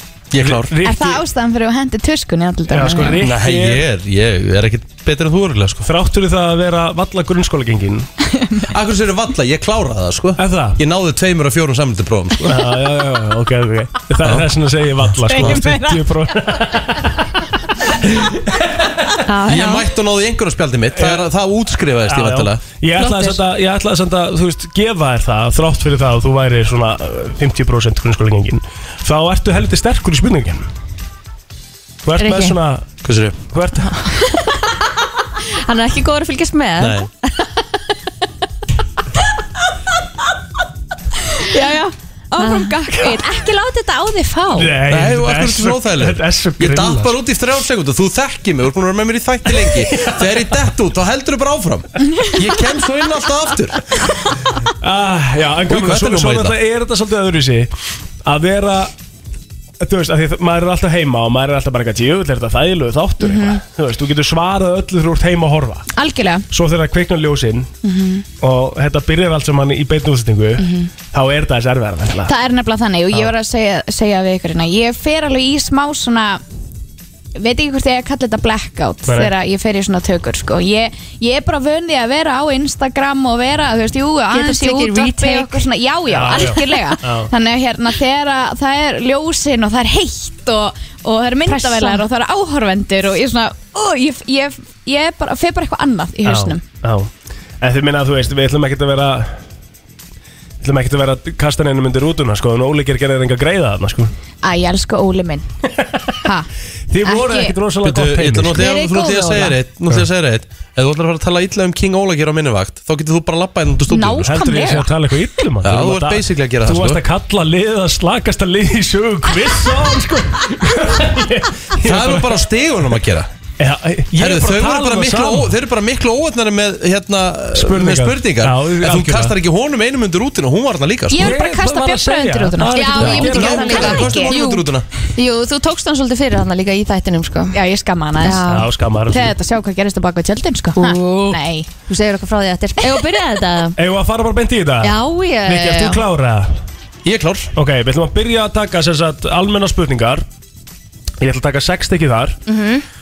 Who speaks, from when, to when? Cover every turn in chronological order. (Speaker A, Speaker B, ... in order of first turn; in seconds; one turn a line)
Speaker A: 0.3-0.7
Speaker B: 0.4-1.2
Speaker C: 0.8-3.2
Speaker B: 2.7-3.9
Speaker A: 3.1-5.9
Speaker B: 5.8-8.1
Speaker C: 8.3-8.7
Speaker A: 8.7-12.7
Speaker B: 10.4-10.8
Speaker B: 12.4-19.2
Speaker C: 15.3-16.1
Speaker D: 19.2-19.9
Speaker A: 19.4-22.6
Speaker B: 20.9-21.3
Speaker B: 22.1-30.7
Speaker D: 23.0-23.4
Speaker B: 32.0-32.9
Speaker D: 32.2-32.6
Speaker A: 33.0-33.4
Speaker B: 33.5-34.0
Speaker D: 33.9-34.6
Speaker D: 35.6-37.6
Speaker A: 36.8-37.1
Speaker C: 41.4-44.7
Speaker D: 42.4-42.8
Speaker B: 44.5-47.1
Speaker A: 44.9-53.8
Speaker B: 49.7-50.5
Speaker B: 54.8-57.7
Speaker A: 55.7-56.6
Speaker B: 58.2-58.9
Speaker B: 59.8-65.9
Speaker C: 63.2-63.6
Speaker C: 66.0-66.5
Speaker B: 66.5-67.7
Speaker C: 67.8-68.3
Speaker B: 68.4-72.3
Speaker C: 70.6-70.9
Speaker C: 72.3-76.4
Speaker C: 77.4-96.6
Speaker D: 84.3-85.7
Speaker B: 86.1-87.3
Speaker D: 91.5-92.0
Speaker B: 96.3-97.1
Speaker B: 97.6-99.3
Speaker B: 100.6-104.1
Speaker C: 104.4-105.5
Speaker B: 105.8-106.1
Speaker C: 106.2-106.5
Speaker B: 106.9-108.6
Speaker C: 107.0-107.6
Speaker A: 107.8-114.3
Speaker C: 108.6-109.5
Speaker C: 113.9-114.9
Speaker B: 114.2-122.5
Speaker A: 115.6-117.0
Speaker A: 121.8-123.3
Speaker B: 123.6-125.5
Speaker A: 124.2-131.3
Speaker B: 127.5-129.3
Speaker C: 131.1-134.4
Speaker B: 131.2-134.1
Speaker D: 132.7-134.6
Speaker A: 133.1-134.8
Speaker D: 135.2-137.6
Speaker C: 137.5-138.5
Speaker D: 138.2-138.7
Speaker B: 138.5-139.3
Speaker C: 139.1-141.7
Speaker D: 140.8-143.8
Speaker B: 143.8-146.6
Speaker D: 144.8-146.0
Speaker A: 147.0-147.5
Speaker B: 147.6-150.2
Speaker B: 151.2-152.4
Speaker D: 152.5-152.8